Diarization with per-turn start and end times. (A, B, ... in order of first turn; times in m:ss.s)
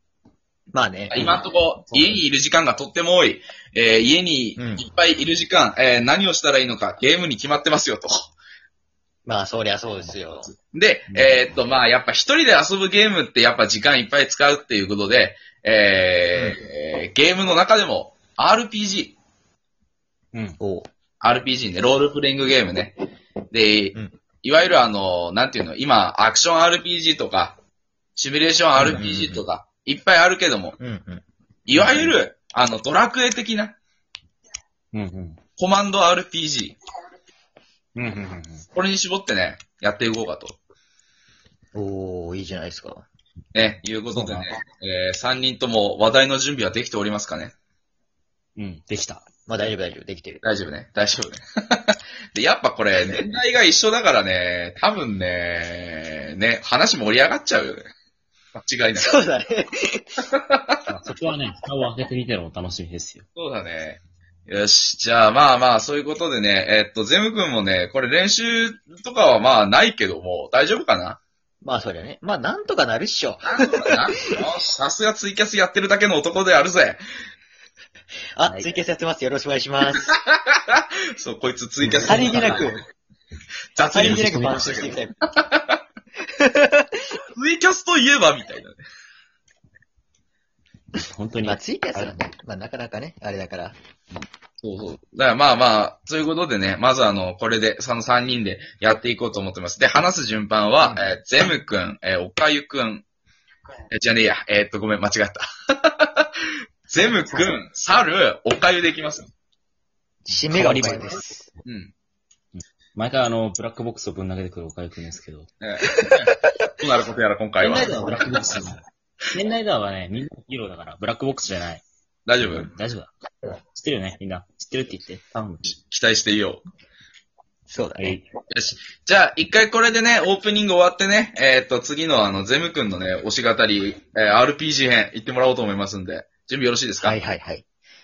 0:00.7-0:01.2 A
0:01.1-0:08.3 B
0:01.1-0:02.2 C
0:04.6-0:04.8 A
0:09.2-0:10.5 A
0:10.0-0:10.5 C
0:10.7-0:19.2 B
0:11.1-0:11.5 C
0:20.6-0:20.9 A
0:21.2-0:23.0 B
0:23.5-0:27.5 B
0:28.2-0:30.8 B
0:28.8-0:29.4 A
0:28.8-0:29.0 C
0:30.8-0:31.2 A
0:31.7-0:33.8 B
0:31.8-0:32.0 C
0:34.9-0:35.4 C
0:35.6-0:36.8 B
0:38.0-0:38.6 C
0:38.7-0:40.6 B
0:41.7-0:43.0 A
0:43.5-0:47.5 B
0:44.1-0:44.5 C
0:48.6-0:49.2 C
0:49.5-0:50.4 A
0:50.4-0:57.9 B
0:58.5-0:59.2 B
0:59.0-1:00.2 A
1:00.4-1:00.8 B
1:00.9-1:03.2 C
1:03.3-1:11.2 B
1:11.6-1:14.0 A
1:13.4-1:17.0 B
1:18.4-1:20.1 A
1:18.4-1:18.7 C
1:20.0-1:22.7 B
1:21.8-1:22.7 C
1:22.0-1:22.8 A
1:23.7-1:25.8 B
1:23.8-1:25.1 A
1:24.0-1:24.8 C
1:26.4-1:26.9 A
1:27.3-1:28.8 B
1:31.0-1:32.1 C
1:31.4-1:33.8 A
1:34.1-1:43.0 B
1:43.9-1:46.3 B
1:46.9-1:49.3 B
1:50.2-1:51.5 A
1:50.3-1:51.3 C
1:51.6-1:51.9 B
1:52.5-1:55.5 C
1:55.6-1:58.0 B
1:56.0-1:56.3 A
1:57.6-1:58.8 C
1:59.3-2:01.8 C
2:02.2-2:02.7 B
2:02.4-2:03.1 C
2:03.7-2:05.7 C
2:05.7-2:06.6 B
2:07.7-2:08.2 A
2:08.0-2:08.2 C
2:08.5-2:17.2 B
2:17.0-2:17.6 A